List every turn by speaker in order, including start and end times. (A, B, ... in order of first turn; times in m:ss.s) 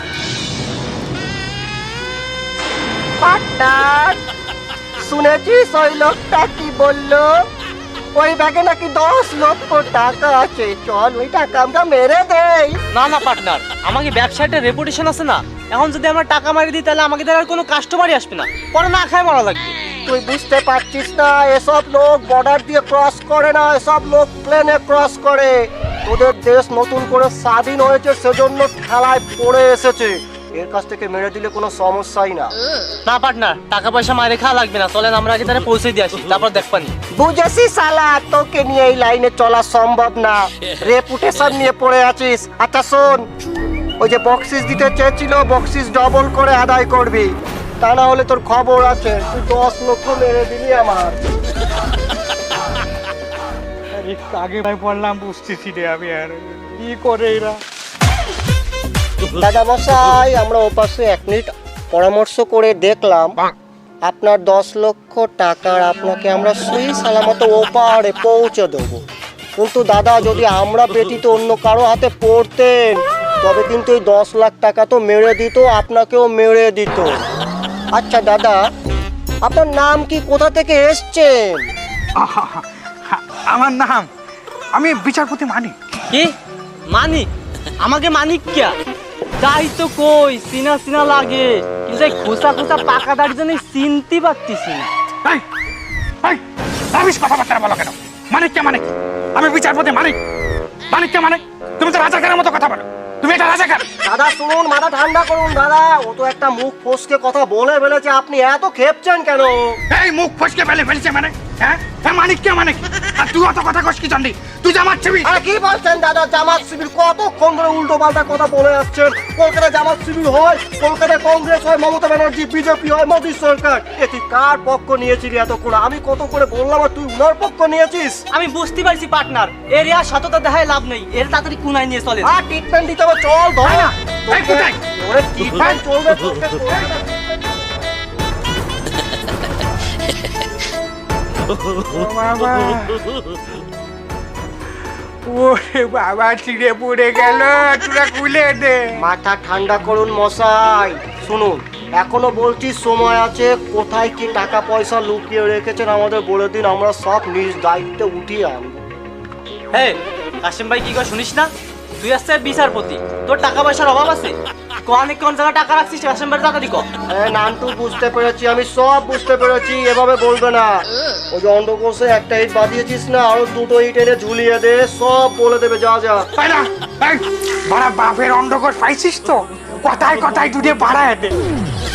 0:03.2-0:04.2 A
0:05.0-0:07.4 A
0:08.1-0:12.8 A
0:12.9-0:19.8 B
0:20.0-0:25.5 A
0:26.0-0:32.5 A
0:33.0-0:36.9 B
0:37.2-0:43.2 A
0:44.0-0:47.3 A
0:47.8-0:51.2 A
0:53.9-0:57.6 C
0:59.4-1:03.4 A
1:04.0-1:09.0 A
1:09.6-1:17.2 A
1:17.9-1:18.6 A
1:19.4-1:21.7 A
1:22.2-1:24.1 C
1:24.8-1:25.7 C
1:26.1-1:26.3 B
1:26.9-1:27.3 B
1:27.8-1:28.8 B
1:29.4-1:34.9 B
1:36.9-1:40.2 C
1:40.9-1:43.8 C
1:44.0-1:49.8 A
1:49.9-1:55.3 C
1:55.2-2:08.2 A
2:08.3-2:12.3 B
2:12.2-2:17.2 A
2:13.6-2:14.8 C
2:15.5-2:15.8 C
2:21.8-2:23.1 C
2:25.2-2:28.9 C
2:29.0-2:38.8 A
2:39.7-2:46.9 B
2:47.1-2:50.8 A
2:51.3-2:56.2 A
2:56.4-3:01.4 C